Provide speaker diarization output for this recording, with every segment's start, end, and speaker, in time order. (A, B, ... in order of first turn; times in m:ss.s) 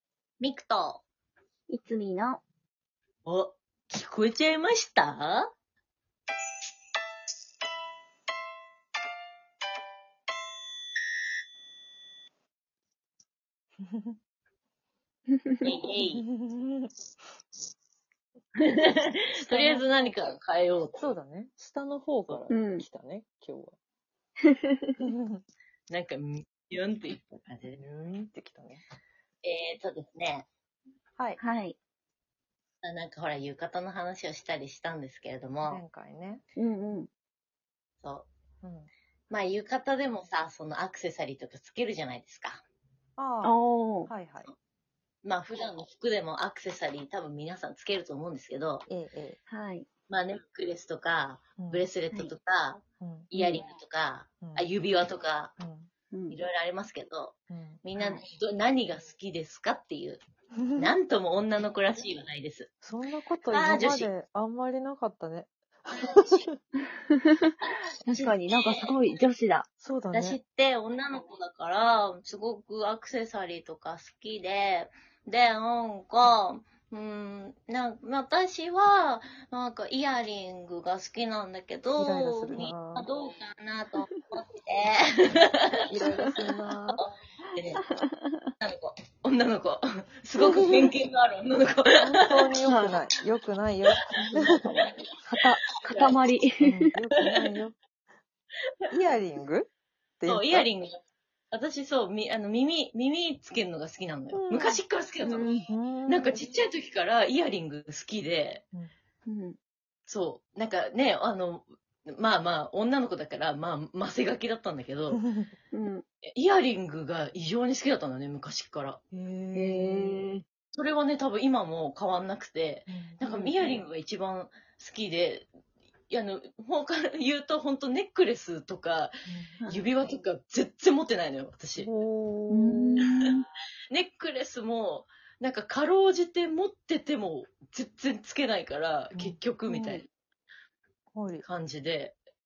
0:00.4-0:01.0 A
0:01.7-0:02.4 B
0:03.2-0:05.5 A
0:13.9-0:14.2 C
0:15.3-0:15.6 B
0:15.6-0:16.2 A
0:16.1-0:16.9 C
0:18.6-0:21.2 A
0:19.4-0:20.2 C
0:21.0-0:23.8 C
0:22.5-0:22.9 B
0:24.5-0:25.0 B
0:25.0-0:25.4 C
0:25.9-0:27.8 A
0:27.7-0:28.8 C
0:29.4-0:30.5 A
0:31.4-0:31.8 B
0:32.8-0:35.8 A
0:35.6-0:36.4 C
0:36.6-0:37.1 B
0:38.0-0:38.3 A
0:38.6-0:38.9 C
0:39.3-0:42.6 A
0:43.2-0:44.5 C
0:43.4-0:44.1 B
0:45.2-0:48.9 A
0:48.9-0:49.4 C
0:49.5-0:49.9 B
0:50.1-0:55.5 A
0:51.6-0:51.9 C
0:53.0-0:53.3 C
0:53.3-0:53.6 B
0:54.4-0:54.7 C
0:55.6-0:55.9 C
0:56.1-0:56.4 B
0:56.3-1:00.2 A
0:57.5-0:57.8 C
0:58.0-0:58.2 B
1:00.6-1:01.0 C
1:00.8-1:02.7 A
1:02.8-1:06.6 C
1:03.5-1:04.1 A
1:06.0-1:06.4 A
1:07.1-1:07.5 B
1:08.0-1:09.7 B
1:08.1-1:08.8 A
1:09.8-1:10.4 C
1:10.1-1:25.7 A
1:22.0-1:23.1 C
1:25.9-1:27.0 C
1:26.1-1:26.6 B
1:27.0-1:27.8 A
1:27.5-1:28.5 B
1:28.6-1:32.6 A
1:32.0-1:34.6 C
1:32.6-1:32.9 B
1:34.2-1:34.6 B
1:34.5-1:34.9 A
1:35.3-1:35.6 C
1:35.4-1:36.7 B
1:35.9-1:36.3 A
1:36.6-1:37.8 C
1:37.3-1:37.5 A
1:38.9-1:40.7 C
1:40.3-1:41.0 A
1:41.5-1:48.6 A
1:44.3-1:44.8 C
1:45.2-1:45.7 B
1:45.7-1:46.5 C
1:49.3-1:49.6 B
1:50.1-1:55.2 A
1:55.1-1:55.5 C
1:55.7-1:56.0 B
1:56.2-1:59.0 A
1:59.1-2:00.2 C
1:59.5-2:00.4 B
2:00.7-2:05.5 A
2:02.9-2:03.8 C
2:06.1-2:09.1 A
2:09.3-2:09.6 C
2:09.6-2:10.0 B
2:09.7-2:11.9 A
2:11.8-2:13.0 C
2:12.5-2:13.4 B
2:13.0-2:13.3 A
2:13.9-2:20.1 A
2:19.7-2:20.0 B
2:21.2-2:21.4 C
2:21.4-2:22.2 A